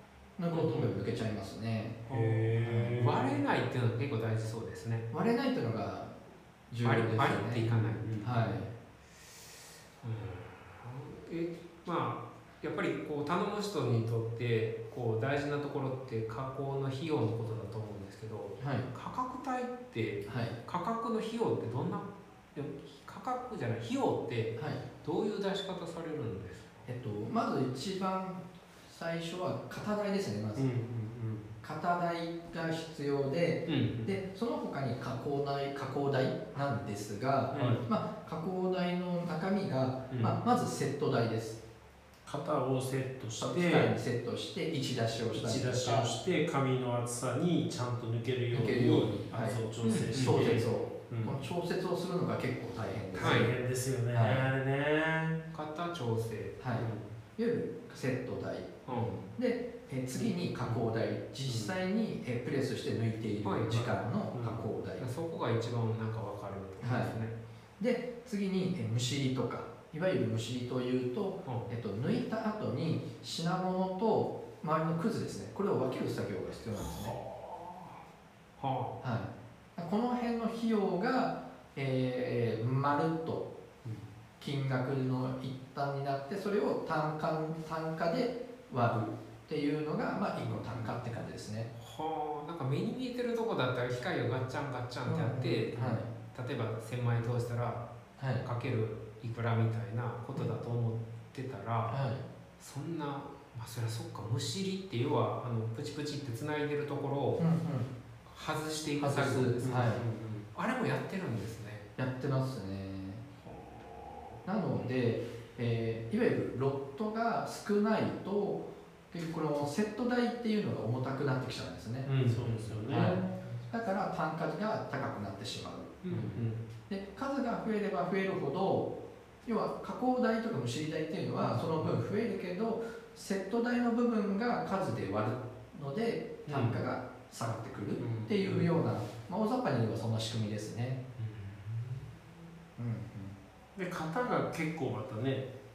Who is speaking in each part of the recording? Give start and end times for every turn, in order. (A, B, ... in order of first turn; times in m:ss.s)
0:00.4-0:02.1 A
0:02.1-0:05.1 B
0:02.1-0:03.4 C
0:02.6-0:03.0 A
0:05.1-0:06.1 A
0:06.7-0:08.7 A
0:06.8-0:08.1 B
0:07.7-0:08.3 C
0:10.0-0:26.9 B
0:18.6-0:18.9 A
0:20.3-0:20.6 A
0:24.6-0:24.8 A
0:26.9-0:30.7 A
0:30.6-0:31.5 C
0:31.6-0:41.6 A
0:33.7-0:34.2 B
0:37.5-0:37.8 B
0:37.6-0:37.8 C
0:42.3-0:43.9 C
0:43.4-0:46.1 A
0:45.3-0:51.4 C
0:48.5-0:53.5 A
0:49.8-0:50.6 B
0:53.1-0:55.4 C
0:53.2-0:53.5 B
0:54.1-0:54.5 A
0:55.5-0:56.6 B
0:56.6-1:05.1 A
0:56.8-0:57.1 C
0:58.9-0:59.2 B
0:58.9-0:59.2 C
1:01.5-1:01.8 C
1:03.4-1:04.0 B
1:04.3-1:04.7 C
1:05.0-1:07.4 B
1:06.8-1:07.2 A
1:07.8-1:17.2 A
1:16.7-1:18.0 B
1:18.6-1:19.0 B
1:19.0-1:23.5 A
1:24.4-1:31.7 A
1:30.4-1:30.9 B
1:31.8-1:37.9 B
1:35.1-1:36.1 A
1:38.2-1:38.5 A
1:38.4-1:42.0 B
1:41.9-1:42.2 A
1:42.6-1:47.4 B
1:47.4-1:47.9 A
1:48.3-1:51.9 B
1:49.0-1:50.0 A
1:49.6-1:50.5 C
1:52.0-1:53.2 A
1:53.4-1:54.4 B
1:54.5-2:02.1 A
2:02.1-2:03.6 B
2:02.2-2:03.2 C
2:02.9-2:06.1 A
2:06.0-2:06.6 B
2:06.1-2:06.4 C
2:06.9-2:08.9 A
2:09.4-2:21.0 A
2:11.4-2:11.9 B
2:16.5-2:16.8 B
2:18.0-2:18.7 C
2:21.2-2:22.3 B
2:22.8-2:23.4 A
2:23.8-2:25.5 C